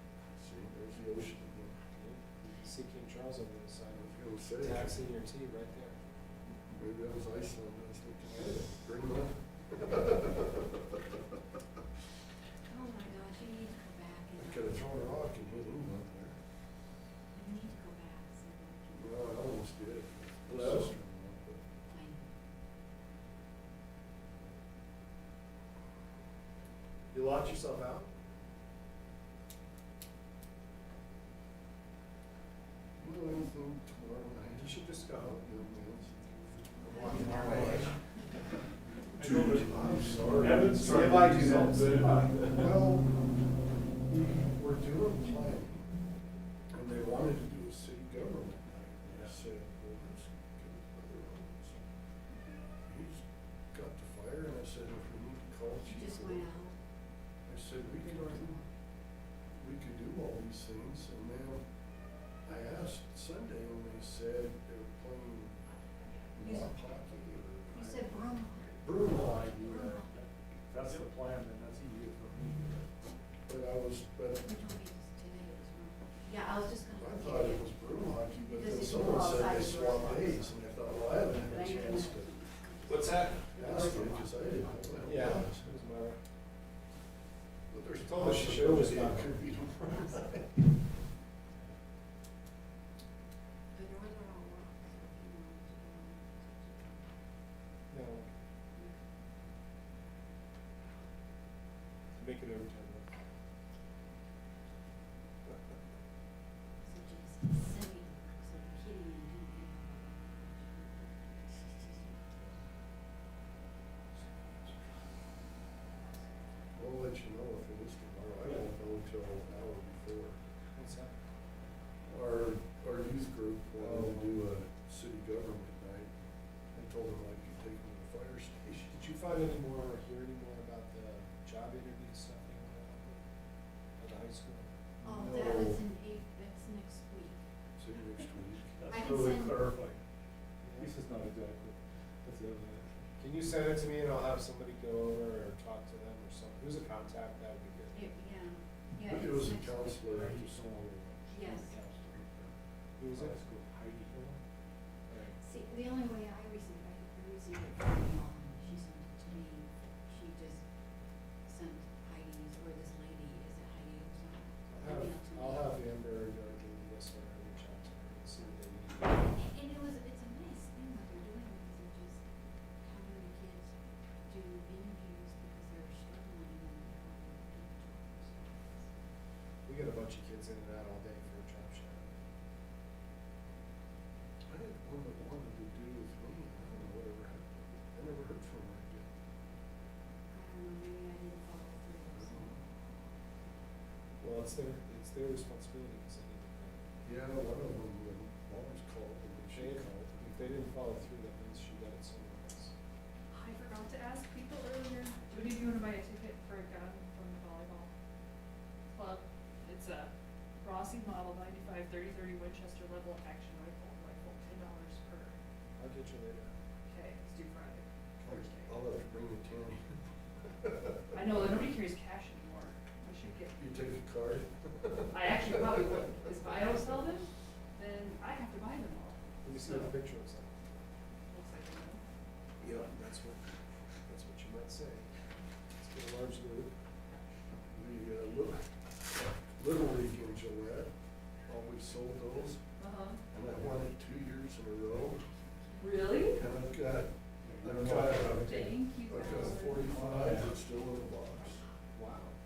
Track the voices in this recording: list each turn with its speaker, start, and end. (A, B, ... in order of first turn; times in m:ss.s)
0:00.4-0:01.8 A
0:02.0-0:06.0 B
0:04.0-0:05.0 A
0:06.7-0:10.5 A
0:12.7-0:15.0 C
0:14.4-0:16.4 A
0:17.3-0:19.2 C
0:19.0-0:21.6 A
0:20.5-0:20.9 B
0:21.9-0:22.4 C
0:27.1-0:28.1 B
0:33.0-0:36.2 A
0:34.6-0:35.4 B
0:36.8-0:37.9 A
0:36.8-0:38.0 C
0:39.2-0:40.8 A
0:39.2-0:42.7 D
0:40.4-0:42.8 B
0:42.6-0:43.2 A
0:44.1-0:45.9 A
0:46.7-0:51.8 A
0:52.9-0:56.5 A
0:55.8-0:56.8 C
0:57.5-0:58.6 A
0:58.0-0:58.7 C
0:59.6-1:01.6 A
1:02.4-1:05.6 A
1:06.3-1:08.1 A
1:07.7-1:10.1 C
1:08.8-1:09.6 A
1:09.1-1:12.9 D
1:13.5-1:14.5 A
1:14.4-1:17.8 C
1:17.0-1:22.4 A
1:18.4-1:20.5 C
1:21.3-1:24.2 C
1:23.6-1:25.7 A
1:25.0-1:26.2 B
1:27.7-1:30.6 A
1:28.0-1:29.3 B
1:33.7-1:37.2 C
1:37.9-1:38.3 B
1:42.2-1:43.2 B
1:46.8-1:52.1 C
1:54.2-1:54.9 B
1:56.8-2:00.4 A
2:00.7-2:01.1 B
2:02.1-2:06.1 A
2:03.8-2:04.4 B
2:06.7-2:09.0 A
2:08.9-2:13.3 B
2:14.0-2:14.7 B
2:15.0-2:17.4 C
2:15.2-2:15.8 A
2:17.8-2:19.2 A
2:18.8-2:20.0 D
2:18.9-2:19.7 C
2:20.6-2:21.0 B
2:20.8-2:22.9 D
2:23.2-2:28.1 B
2:27.9-2:29.9 C
2:29.0-2:30.5 A
2:30.1-2:32.0 D
2:31.3-2:31.7 C
2:32.2-2:32.5 A
2:33.0-2:33.4 B
2:33.1-2:34.4 D
2:35.1-2:35.4 B
2:35.4-2:40.6 C
2:41.4-2:45.8 C
2:44.7-2:49.4 B
2:49.2-2:52.2 C
2:52.8-2:53.7 C
2:54.3-2:58.9 C
2:59.7-3:02.2 B
3:04.5-3:09.1 A
3:10.3-3:12.6 C
3:12.2-3:12.6 A
3:14.2-3:16.9 B
3:17.0-3:20.2 A
3:19.5-3:22.7 B
3:23.3-3:27.9 E
3:28.9-3:35.4 E
3:35.8-3:36.5 B
3:36.9-3:38.9 E
3:38.2-3:39.8 A
3:40.4-3:41.7 A
3:41.1-3:43.6 E
3:43.6-3:45.9 A
3:45.1-3:50.0 E
3:49.4-3:50.6 B
3:51.3-3:52.0 E
3:52.6-3:53.4 B
3:54.1-3:55.1 B
3:55.8-3:56.7 B
3:57.7-3:58.6 A
3:59.6-4:00.9 A
4:01.5-4:02.6 A
4:02.8-4:03.2 E
4:03.3-4:05.2 A
4:05.3-4:06.1 C
4:05.8-4:06.4 E
4:06.4-4:11.6 A
4:07.5-4:08.7 D
4:08.4-4:10.0 E
4:10.0-4:10.5 D
4:11.9-4:12.4 B